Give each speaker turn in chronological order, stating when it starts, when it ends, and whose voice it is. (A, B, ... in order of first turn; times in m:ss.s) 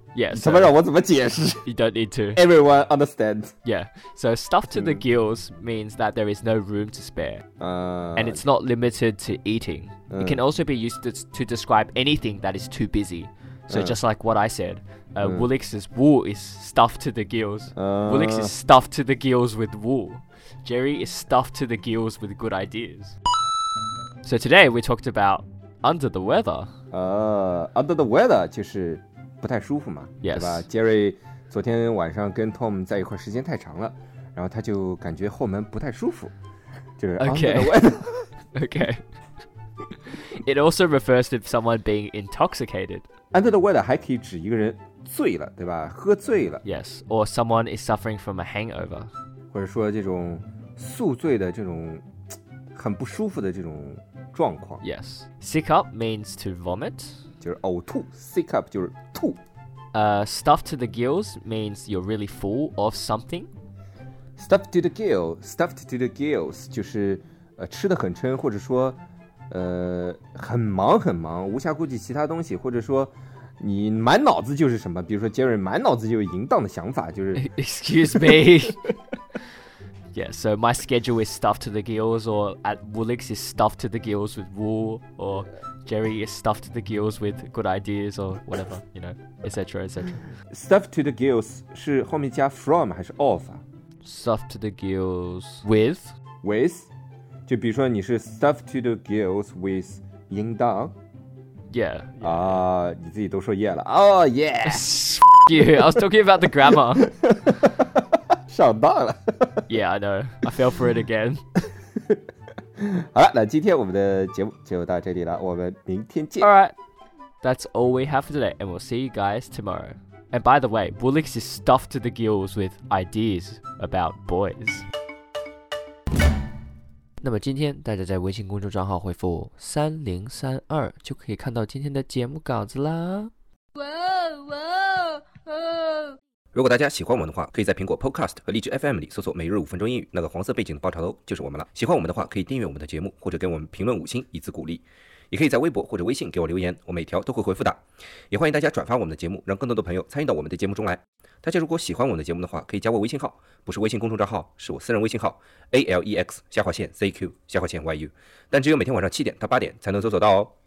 0:00.2-0:00.8 A
0:00.3-0:01.6 B
0:01.6-0:02.4 A
0:02.4-0:03.5 B
0:03.6-0:07.4 A
0:04.7-0:05.0 B
0:07.6-0:08.4 B
0:08.2-0:23.2 A
0:10.1-0:10.4 B
0:13.7-0:14.0 B
0:15.2-0:15.5 B
0:17.8-0:18.6 B
0:24.2-0:26.7 A
0:26.9-0:36.3 B
0:30.2-0:30.7 A
0:37.0-0:38.3 B
0:37.2-0:37.8 A
0:38.5-0:39.0 A
0:40.0-0:43.0 A
0:43.3-0:46.6 B
0:46.6-0:49.1 A
0:49.5-0:52.0 B
0:52.7-0:54.8 B
0:54.8-0:57.2 A
0:57.4-0:59.4 B
0:59.9-1:03.5 A
1:04.4-1:09.0 B
1:09.5-1:17.5 B
1:17.4-1:18.8 A
1:18.2-1:18.5 B
1:20.1-1:30.2 A
1:30.5-1:33.6 B
1:34.0-1:36.1 A
1:36.4-1:36.9 B
1:37.5-1:40.9 B
1:41.7-1:42.6 A
1:42.2-1:44.9 B
1:44.6-1:47.1 A
1:45.6-1:49.7 B
1:49.7-1:51.4 A
1:52.8-1:56.5 B
1:56.4-1:56.7 A
1:57.4-2:04.8 A
2:07.2-2:13.3 A
2:13.8-2:16.2 C
2:16.5-2:27.8 D
2:28.3-2:40.5 D